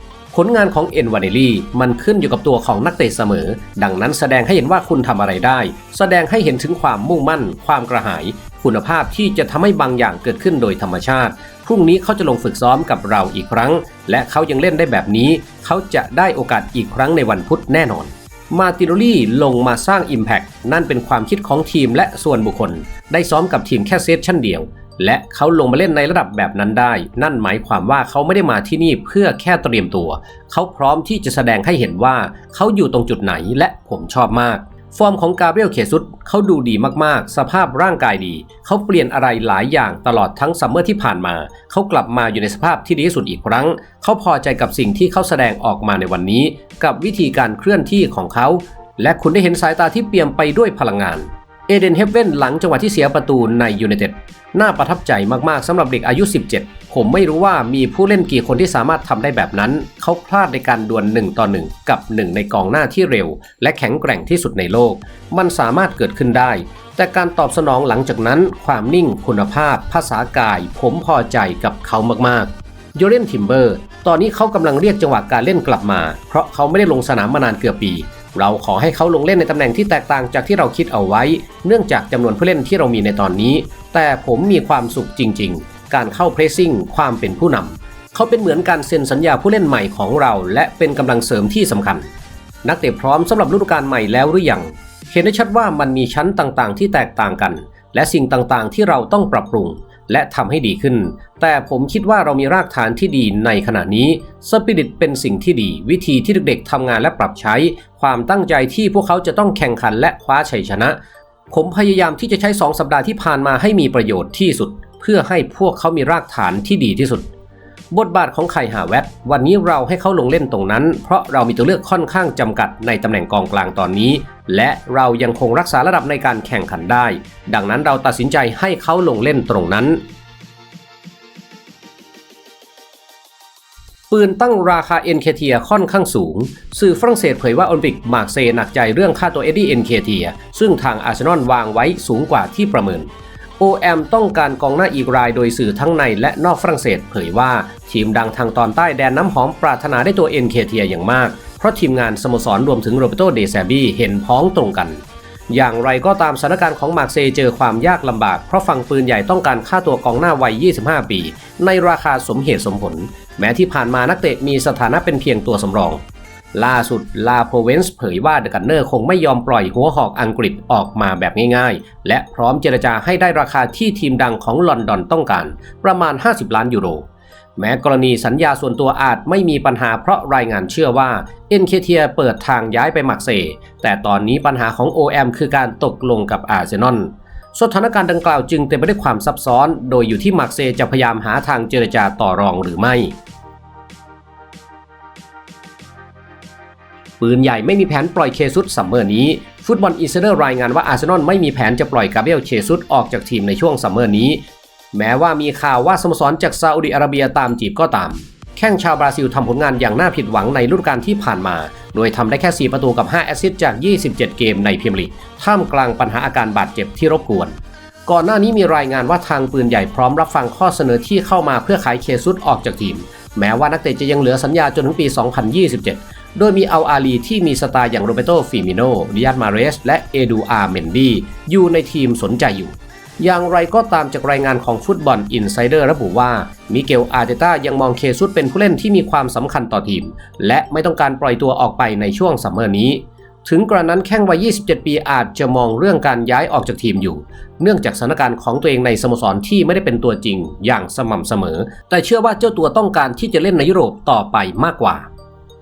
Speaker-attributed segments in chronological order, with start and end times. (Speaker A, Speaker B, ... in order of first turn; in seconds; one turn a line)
Speaker A: 0.3-92.1
Speaker A: 92.6-111.0
Speaker A: 111.5-117.3
Speaker A: 117.9-130.0
Speaker A: 134.1-166.0
Speaker A: 166.5-177.1
Speaker A: 177.6-193.1
Speaker A: 197.2-204.4
Speaker A: 204.9-217.5
Speaker A: 218.1-255.1